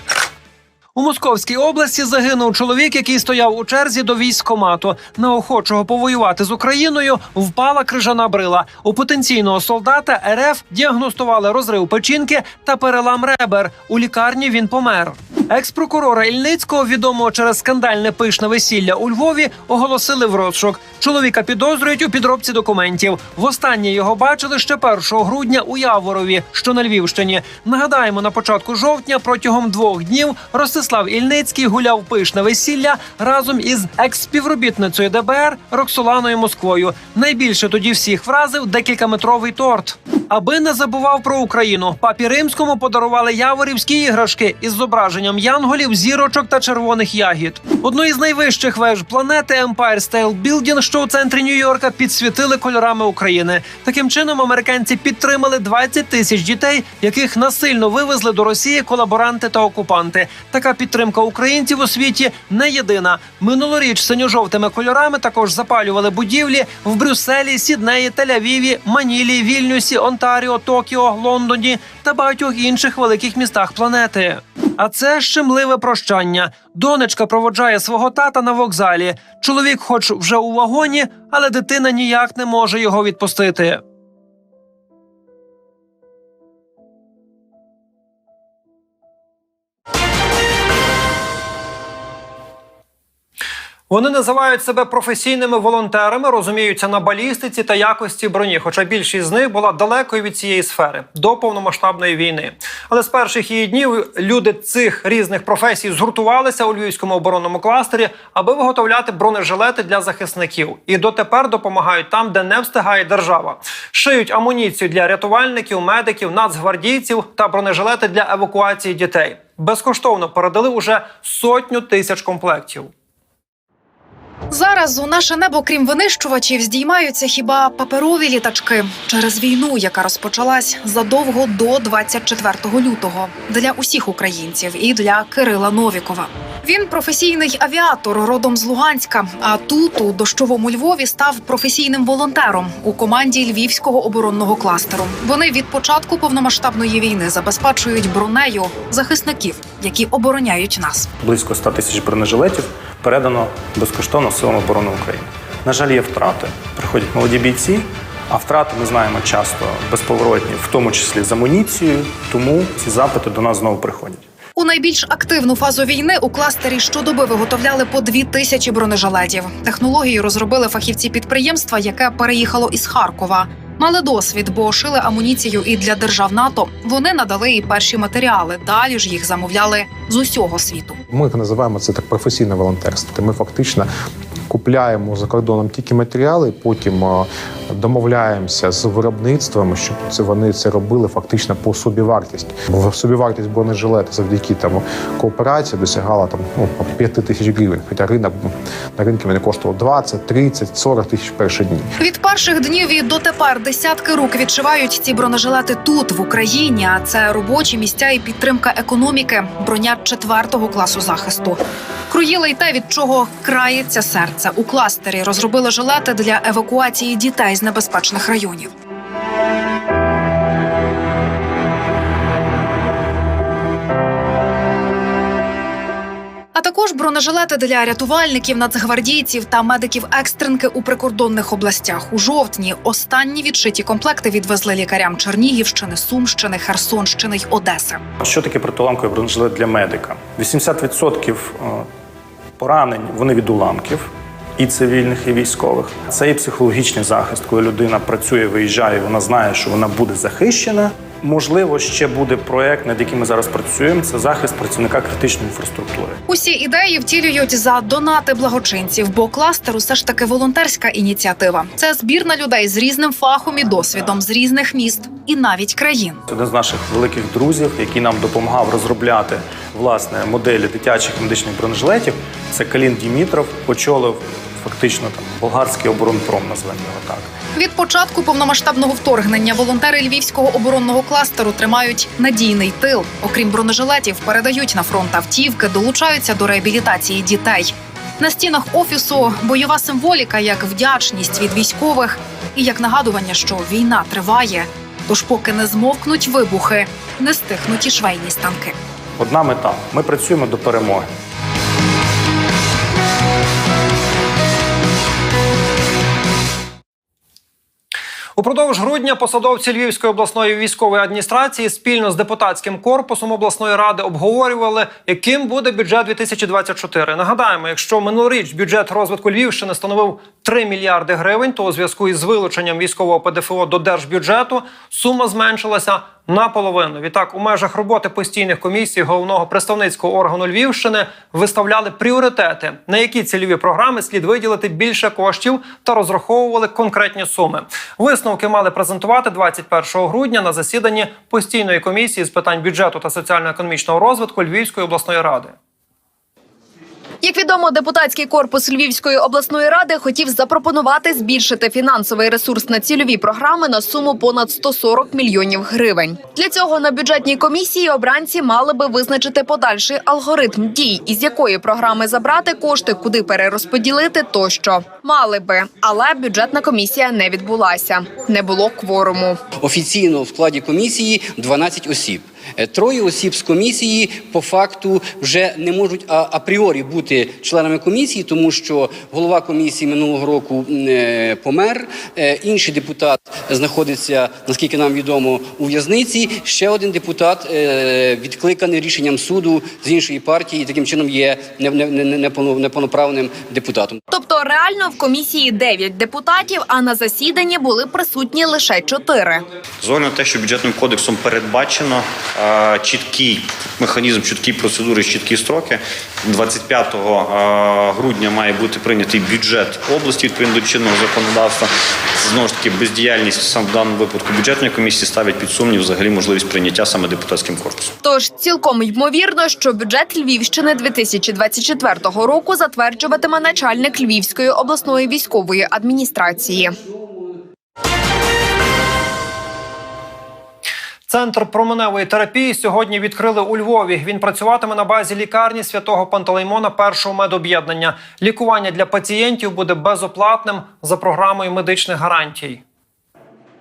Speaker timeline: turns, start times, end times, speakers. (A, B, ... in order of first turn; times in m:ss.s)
0:01.0-1:23.8 A
1:33.9-2:02.9 A
2:04.5-2:31.1 B
2:31.2-2:44.2 C
2:44.5-3:01.0 B
3:01.1-3:03.9 D
3:04.5-3:21.9 D
3:22.0-3:38.7 B
3:46.5-3:58.0 B
3:58.2-4:01.9 C
4:02.6-4:16.2 C
4:16.3-4:26.2 B
4:26.3-4:37.3 C
4:37.5-4:58.8 B
4:59.2-5:01.1 C
5:08.4-5:45.5 A
5:47.2-6:09.4 E
6:09.6-6:34.0 F
6:34.1-6:39.4 E
6:39.8-6:57.9 G
6:58.0-7:06.7 E
7:11.1-7:22.6 A